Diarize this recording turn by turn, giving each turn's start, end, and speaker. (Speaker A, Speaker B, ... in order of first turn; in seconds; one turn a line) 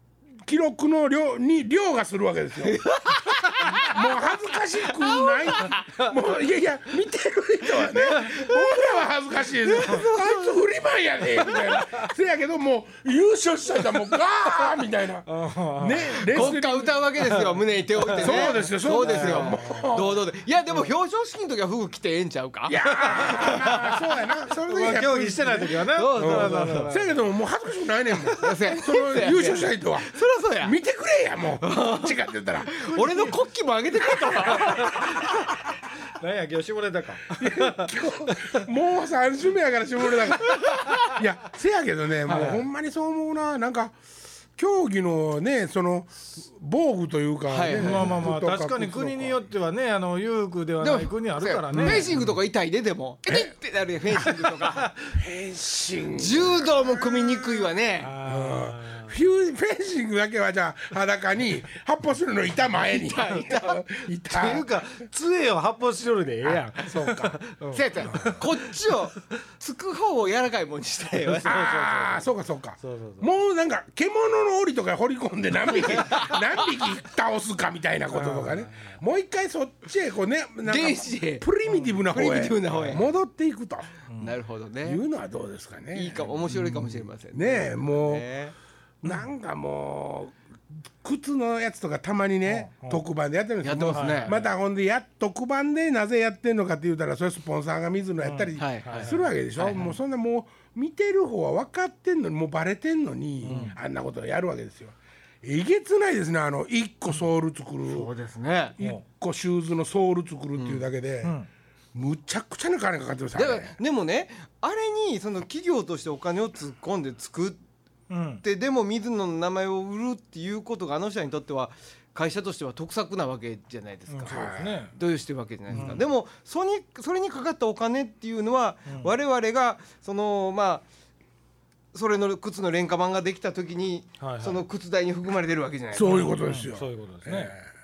Speaker A: 0.4-2.8
Speaker B: 2.6-4.2
Speaker A: 3.6-17.0
Speaker B: 4.8-6.1
Speaker B: 7.7-8.6
Speaker B: 9.7-10.5
Speaker C: 15.2-16.5
Speaker B: 16.2-24.1
Speaker C: 18.0-19.9
Speaker A: 18.1-20.2
Speaker A: 22.7-33.3
Speaker C: 24.6-27.2
Speaker B: 25.9-26.9
Speaker B: 28.2-30.8
Speaker B: 31.6-35.2
Speaker A: 34.1-35.4
Speaker C: 34.6-35.5
Speaker C: 36.1-38.6
Speaker A: 37.4-44.0
Speaker B: 40.5-41.2
Speaker C: 42.3-42.6
Speaker A: 44.6-49.4
Speaker B: 47.5-48.2
Speaker C: 47.7-52.2
Speaker B: 50.8-54.9
Speaker A: 51.7-52.2
Speaker A: 54.1-54.4
Speaker A: 55.0-57.7
Speaker B: 56.1-58.1
Speaker C: 58.0-59.1
Speaker A: 58.2-64.7
Speaker B: 62.9-63.8
Speaker C: 64.3-68.5
Speaker A: 66.8-67.4
Speaker B: 67.7-71.5
Speaker A: 68.0-68.4
Speaker C: 71.2-72.3
Speaker A: 71.4-84.0
Speaker C: 72.8-73.3
Speaker B: 75.8-76.4
Speaker C: 78.1-79.0
Speaker B: 80.6-81.5
Speaker B: 82.1-83.1
Speaker C: 84.1-84.4
Speaker B: 84.2-85.0
Speaker A: 84.8-86.7
Speaker B: 85.9-88.5
Speaker C: 86.5-87.0
Speaker A: 87.3-88.2
Speaker A: 89.0-108.1
Speaker C: 92.5-93.0
Speaker B: 93.6-94.4
Speaker C: 93.9-94.5
Speaker C: 98.2-99.3
Speaker B: 98.6-99.9
Speaker C: 103.4-103.8
Speaker B: 103.5-103.7
Speaker B: 107.9-108.8
Speaker A: 108.8-111.3
Speaker B: 110.6-110.8
Speaker C: 111.2-111.5
Speaker A: 111.9-113.8
Speaker B: 113.3-117.6
Speaker C: 118.1-118.4
Speaker B: 118.4-130.8
Speaker C: 124.1-124.9
Speaker A: 124.2-124.8
Speaker C: 125.7-126.0
Speaker A: 125.7-126.0
Speaker C: 128.9-129.1
Speaker B: 131.9-136.3
Speaker C: 134.2-134.6
Speaker A: 135.9-137.7
Speaker C: 136.0-137.5